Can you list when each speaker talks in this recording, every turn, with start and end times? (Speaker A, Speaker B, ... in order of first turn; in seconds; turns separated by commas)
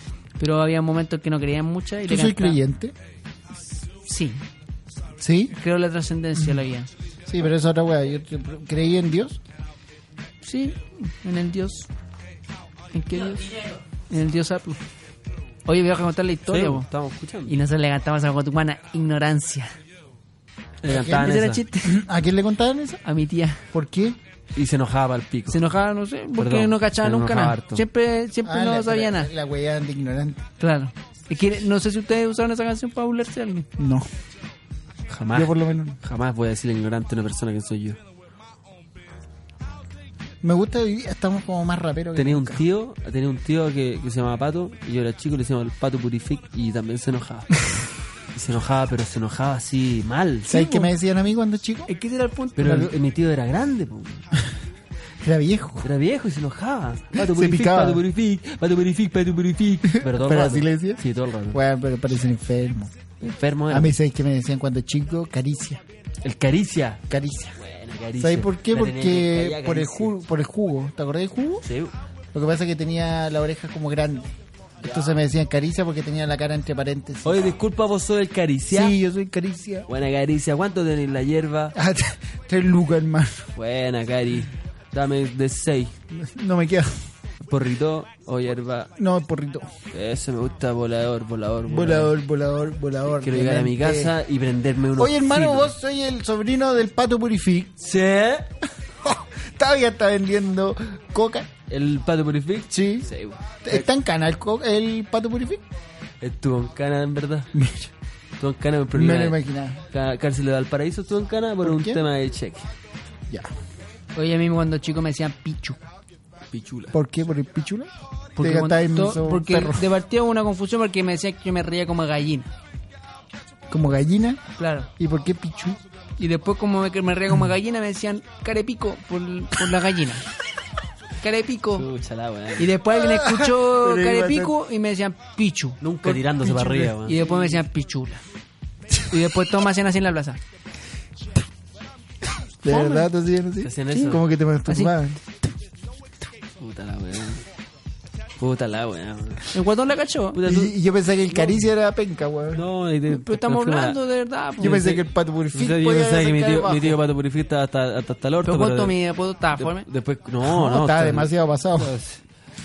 Speaker A: 0.4-2.6, Speaker B: 2.0-2.9, Speaker A: 3.9-4.4, Speaker B: 5.2-5.5, Speaker A: 5.5-6.9, Speaker B: 7.3-9.4, Speaker A: 10.4-11.9, Speaker A: 12.9-14.8, Speaker A: 15.7-16.9, Speaker C: 16.5-17.5, Speaker A: 17.4-19.7, Speaker C: 20.8-21.6, Speaker B: 20.9-23.0, Speaker A: 21.0-22.0, Speaker A: 23.0-23.6, Speaker B: 23.7-24.2, Speaker C: 24.5-25.6, Speaker A: 25.5-29.3, Speaker C: 26.4-27.8, Speaker B: 28.4-30.4, Speaker A: 30.6-33.7, Speaker B: 33.8-34.1, Speaker C: 35.1-38.0, Speaker B: 35.3-36.0, Speaker B: 40.4-42.6, Speaker C: 42.1-47.7, Speaker C: 48.3-50.6, Speaker B: 50.5-51.9, Speaker A: 51.9-52.9, Speaker C: 52.6-54.4, Speaker B: 55.2-55.9, Speaker C: 55.8-61.6, Speaker B: 57.1-58.0, Speaker B: 59.9-62.9, Speaker C: 63.2-64.0, Speaker B: 63.7-65.8, Speaker C: 66.2-67.0, Speaker B: 67.1-67.6, Speaker C: 67.6-70.1, Speaker B: 68.2-71.7, Speaker C: 71.6-71.9, Speaker B: 72.3-77.5, Speaker C: 74.8-75.2, Speaker C: 77.2-79.0, Speaker B: 78.7-79.9, Speaker C: 79.9-81.7, Speaker B: 81.7-83.5, Speaker C: 83.5-85.9, Speaker B: 86.1-87.0, Speaker C: 87.4-88.9, Speaker B: 89.0-89.7, Speaker C: 89.9-92.1, Speaker B: 91.7-94.2, Speaker C: 93.2-95.7, Speaker B: 95.0-97.7, Speaker C: 97.8-98.5, Speaker B: 99.0-101.5, Speaker C: 101.7-103.9, Speaker B: 102.7-103.1, Speaker B: 103.6-105.6, Speaker C: 106.2-107.5, Speaker B: 107.5-107.9, Speaker C: 108.4-109.4, Speaker B: 108.9-109.8, Speaker C: 109.9-112.7, Speaker B: 111.6-112.0, Speaker A: 114.1-115.8, Speaker C: 116.5-116.9, Speaker B: 116.9-119.8, Speaker A: 118.4-122.5, Speaker B: 123.7-124.4, Speaker A: 124.6-124.9, Speaker B: 125.0-125.8, Speaker A: 126.2-130.2, Speaker A: 131.2-131.9, Speaker C: 131.8-132.7, Speaker A: 132.6-138.2, Speaker B: 132.9-134.5, Speaker C: 135.8-137.2, Speaker A: 139.1-140.4, Speaker B: 142.6-145.2, Speaker A: 142.7-143.1, Speaker C: 143.6-144.2, Speaker A: 144.7-144.9, Speaker C: 146.6-147.4, Speaker C: 148.4-149.5, Speaker A: 149.5-150.4, Speaker C: 150.3-150.8, Speaker B: 150.4-152.6, Speaker C: 151.3-151.7, Speaker C: 152.5-154.0, Speaker A: 153.1-154.8, Speaker B: 154.6-157.0, Speaker C: 154.6-159.0, Speaker A: 158.4-159.8, Speaker C: 159.5-162.2, Speaker B: 160.4-161.9